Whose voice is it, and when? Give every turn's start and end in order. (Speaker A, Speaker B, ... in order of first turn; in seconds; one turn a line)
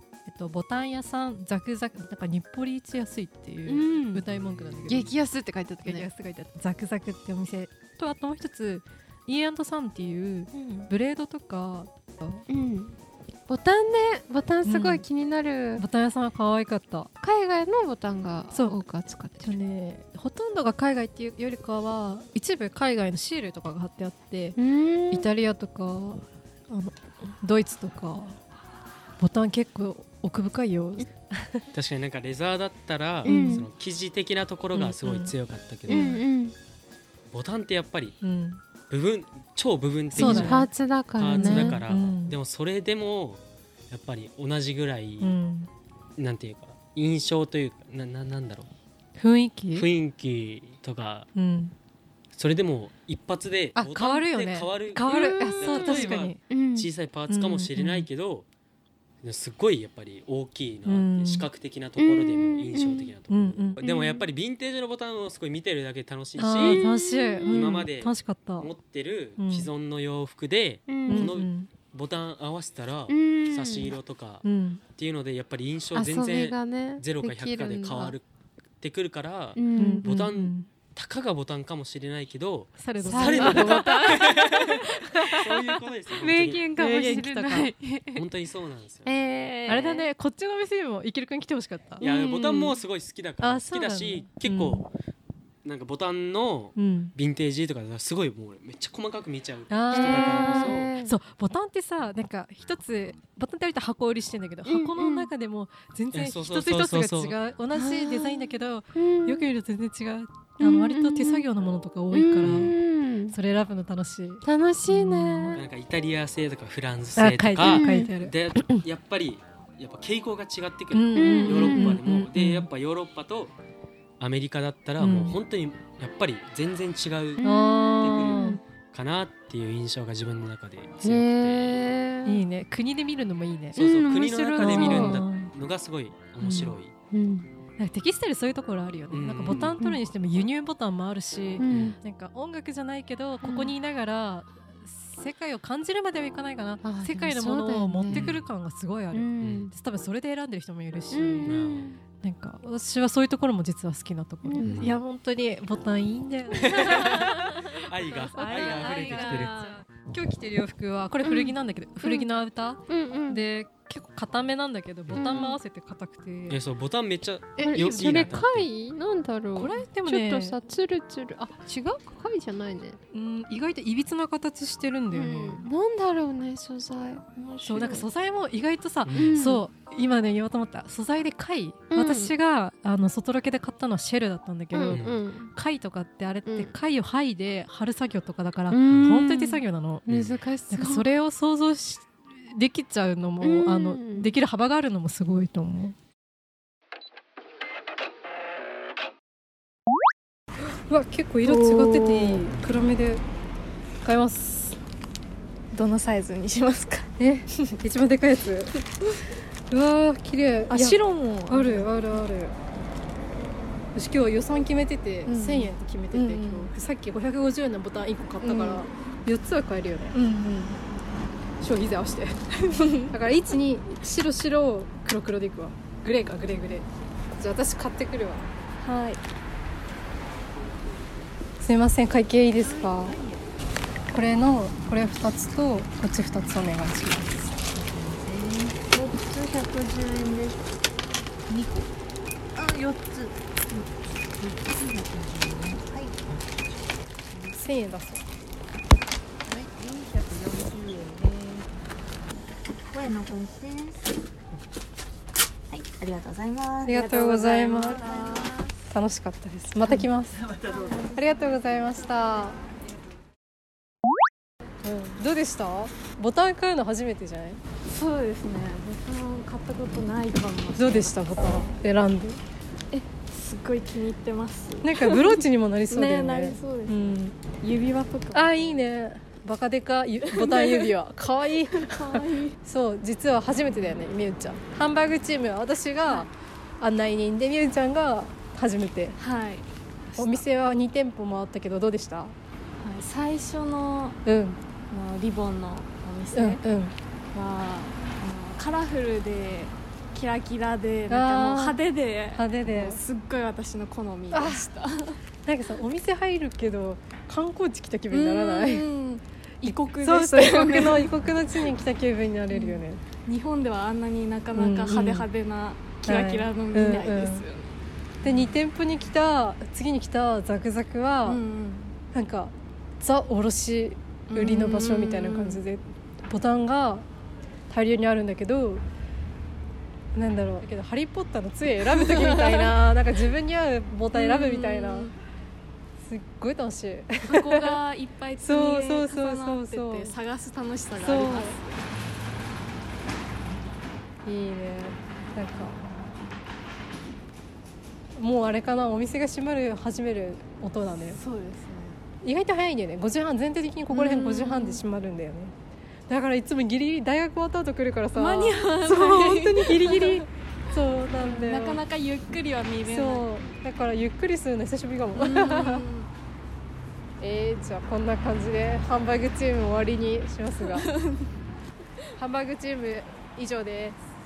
Speaker A: 0.2-5.1
Speaker B: 3.7-4.2
Speaker C: 4.3-5.1
Speaker B: 4.9-6.1
Speaker A: 5.8-12.4
Speaker B: 10.5-10.9
Speaker B: 12.5-13.0
Speaker B: 13.5-15.8
Speaker A: 14.6-15.0
Speaker A: 15.8-17.1
Speaker B: 17.2-19.5
Speaker A: 18.5-18.8
Speaker A: 19.4-24.6
Speaker B: 24.6-25.3
Speaker A: 25.1-28.4
Speaker A: 29.2-31.6
Speaker C: 31.7-36.2
Speaker A: 33.2-33.6
Speaker B: 33.2-33.7
Speaker A: 34.7-35.3
Speaker B: 35.9-36.5
Speaker C: 37.3-38.1
Speaker A: 38.2-38.6
Speaker C: 38.9-45.3
Speaker A: 40.1-40.7
Speaker B: 40.1-41.8
Speaker A: 41.4-42.4
Speaker A: 45.2-45.7
Speaker C: 46.2-48.7
Speaker A: 49.2-49.9
Speaker C: 49.7-51.3
Speaker A: 51.3-51.7
Speaker C: 52.3-58.5
Speaker A: 53.7-56.4
Speaker B: 55.0-56.9
Speaker A: 57.3-58.1
Speaker C: 59.2-66.8
Speaker A: 60.8-61.5
Speaker B: 62.0-63.1
Speaker A: 63.3-63.8
Speaker B: 63.8-64.3
Speaker A: 66.4-68.7
Speaker B: 66.5-67.6
Speaker C: 67.5-78.2
Speaker A: 69.4-69.7
Speaker B: 70.9-71.3
Speaker A: 71.0-71.7
Speaker B: 73.1-73.9
Speaker A: 74.4-74.8
Speaker B: 75.9-78.2
Speaker C: 78.8-86.7
Speaker B: 79.5-80.1
Speaker A: 79.8-80.7
Speaker A: 82.8-84.3
Speaker B: 83.0-84.7
Speaker B: 86.2-88.2
Speaker A: 86.7-87.7
Speaker C: 88.1-89.1
Speaker B: 89.0-90.1
Speaker A: 89.7-92.0
Speaker B: 92.0-92.8
Speaker C: 92.0-94.9
Speaker A: 93.4-94.8
Speaker C: 95.6-100.9
Speaker A: 96.7-97.1
Speaker A: 99.7-112.7
Speaker B: 99.9-101.2
Speaker B: 104.6-105.3
Speaker C: 106.1-107.4
Speaker B: 107.7-109.5
Speaker B: 110.6-111.5
Speaker B: 112.1-113.3
Speaker C: 112.4-112.7
Speaker A: 113.3-115.6
Speaker B: 114.4-115.6
Speaker C: 115.5-123.5
Speaker A: 117.2-118.8
Speaker B: 117.7-118.1
Speaker A: 120.9-122.7
Speaker B: 121.1-122.0
Speaker C: 124.2-127.5
Speaker A: 125.0-125.4
Speaker B: 127.4-128.6
Speaker A: 127.4-128.6
Speaker C: 128.0-131.8
Speaker B: 131.0-132.4
Speaker A: 132.2-133.8
Speaker C: 133.7-136.9
Speaker B: 133.8-135.3
Speaker A: 134.6-135.5
Speaker A: 136.4-136.8
Speaker B: 137.1-137.4
Speaker A: 137.8-151.6
Speaker C: 139.1-139.8
Speaker B: 141.6-142.0
Speaker C: 141.7-141.9
Speaker B: 143.4-143.7
Speaker B: 146.8-148.4
Speaker C: 148.1-148.4
Speaker B: 149.1-149.7
Speaker C: 149.4-149.7
Speaker B: 151.1-152.0
Speaker C: 151.4-152.0
Speaker A: 152.2-166.6
Speaker B: 154.4-154.9
Speaker C: 154.6-154.9
Speaker C: 156.5-159.5
Speaker B: 156.9-157.6
Speaker B: 158.3-159.8
Speaker B: 161.2-162.3
Speaker B: 162.9-163.4
Speaker C: 165.1-165.5
Speaker B: 165.1-165.6
Speaker C: 166.5-168.7
Speaker A: 167.6-168.4
Speaker B: 167.6-173.0
Speaker A: 169.6-170.6
Speaker A: 173.1-175.7
Speaker B: 175.1-178.1
Speaker A: 177.6-190.1
Speaker C: 179.1-179.5
Speaker B: 179.1-179.6
Speaker B: 181.9-182.3
Speaker B: 184.7-185.5
Speaker C: 184.9-185.2
Speaker B: 186.4-186.7
Speaker B: 188.7-191.0
Speaker C: 190.1-190.4
Speaker A: 190.7-195.9
Speaker B: 193.4-194.3
Speaker A: 200.9-203.2
Speaker D: 201.4-202.4
Speaker A: 204.0-204.8
Speaker D: 205.7-207.1
Speaker A: 207.2-208.8
Speaker A: 209.7-212.6
Speaker D: 210.7-211.9
Speaker A: 213.9-220.2
Speaker D: 215.2-216.7
Speaker D: 218.4-218.8
Speaker D: 220.1-220.8
Speaker A: 221.6-222.3
Speaker D: 222.7-223.1
Speaker A: 223.1-228.5
Speaker D: 228.8-229.2
Speaker A: 231.6-233.2
Speaker A: 234.1-237.6
Speaker E: 238.9-240.5
Speaker E: 244.4-246.1
Speaker A: 247.6-248.2
Speaker E: 249.5-251.6
Speaker E: 252.9-254.0
Speaker E: 255.7-256.9
Speaker A: 256.9-258.0
Speaker D: 256.9-258.5
Speaker E: 257.9-258.5
Speaker A: 258.9-260.5
Speaker E: 260.7-261.1
Speaker A: 261.1-262.6
Speaker A: 264.8-267.6
Speaker D: 267.9-271.3
Speaker A: 270.7-272.4
Speaker D: 272.9-277.0
Speaker A: 274.8-277.4
Speaker D: 277.5-278.8
Speaker A: 278.3-289.2
Speaker D: 280.3-280.9
Speaker D: 281.7-282.6
Speaker D: 289.2-290.4
Speaker A: 290.1-292.3
Speaker D: 292.8-294.2
Speaker A: 294.2-294.6
Speaker D: 294.9-296.6
Speaker A: 296.3-296.9
Speaker D: 297.3-305.2
Speaker A: 301.1-301.8
Speaker A: 302.3-303.0
Speaker A: 304.3-304.7
Speaker A: 305.4-308.9
Speaker D: 308.1-311.1
Speaker A: 309.6-313.1
Speaker D: 312.5-317.7
Speaker A: 314.5-315.3
Speaker A: 316.0-317.4
Speaker A: 318.2-321.4
Speaker D: 321.2-322.0
Speaker A: 322.1-327.1
Speaker D: 324.3-325.6
Speaker A: 327.7-328.8
Speaker A: 330.1-335.1
Speaker D: 331.9-332.7
Speaker D: 334.1-335.1
Speaker A: 336.0-337.8
Speaker D: 337.2-341.9
Speaker A: 338.4-340.1
Speaker A: 340.9-341.5
Speaker A: 344.2-345.8
Speaker A: 348.1-351.2
Speaker D: 351.1-352.0
Speaker A: 352.2-355.5
Speaker B: 353.9-354.8
Speaker A: 356.1-361.8
Speaker D: 358.1-360.2
Speaker D: 361.1-363.4
Speaker A: 362.8-365.8
Speaker D: 365.1-366.1
Speaker A: 367.2-370.9
Speaker D: 370.7-371.2
Speaker A: 372.1-374.0